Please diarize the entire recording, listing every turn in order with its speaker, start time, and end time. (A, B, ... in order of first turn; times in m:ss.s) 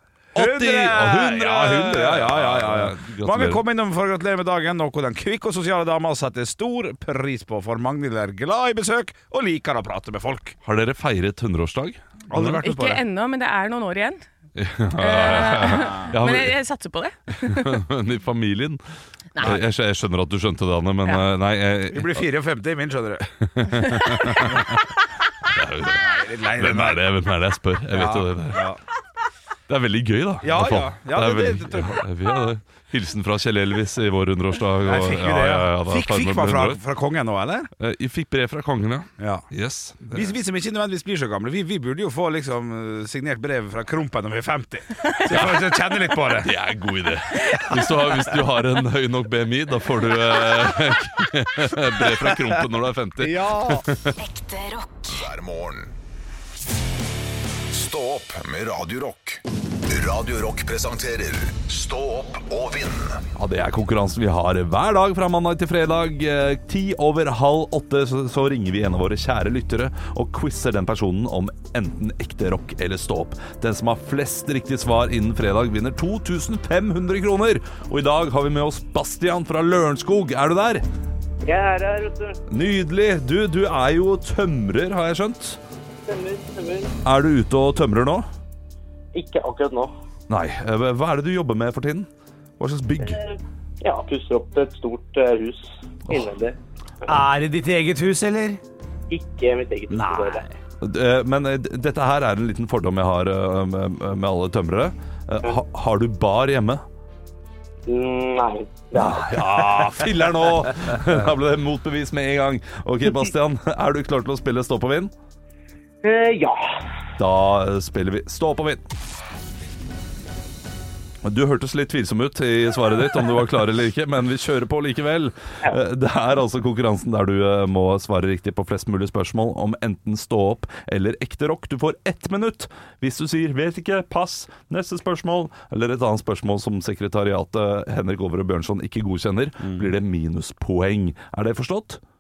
0:00.3-0:10.6 A
0:00.4-0:03.6 B
0:10.6-0:12.6 B
0:12.3-0:13.0 A
0:12.6-0:14.2 C
0:14.6-0:16.6 B
0:15.0-0:17.8 C
0:15.7-0:16.1 A
0:17.4-0:18.8 B
0:19.4-0:19.6 C
0:19.4-0:22.2 B
0:21.9-0:23.8 A
0:23.6-0:24.8 B
0:23.8-0:24.6 C
0:24.4-0:24.6 A
0:25.4-0:28.7 B
0:25.9-0:27.0 A
0:27.9-0:28.8 A
0:29.7-0:36.8 B
0:30.4-0:32.1 A
0:34.8-0:37.7 A
0:37.8-0:40.3 B
0:39.2-0:39.5 A
0:40.1-0:46.6 A
0:45.3-0:54.2 B
0:47.5-0:47.8 C
0:52.0-0:52.6 A
0:53.2-0:53.9 A
0:54.2-0:55.9 D
0:57.7-1:03.2 D
1:03.4-1:20.8 B
1:21.4-1:22.4 E
1:22.5-1:25.6 B
1:26.1-1:26.9 E
1:27.0-1:28.3 B
1:29.1-1:29.9 E
1:30.3-1:33.2 B
1:33.0-1:37.2 E
1:37.1-1:38.6 A
1:39.1-1:40.4 E
1:39.9-1:40.6 A
1:40.8-1:46.8 B
1:47.9-1:49.6 E
1:48.9-1:55.1 B
1:56.0-1:56.8 E
1:57.2-1:58.8 B
2:01.2-2:22.0 B
2:19.6-2:19.9 A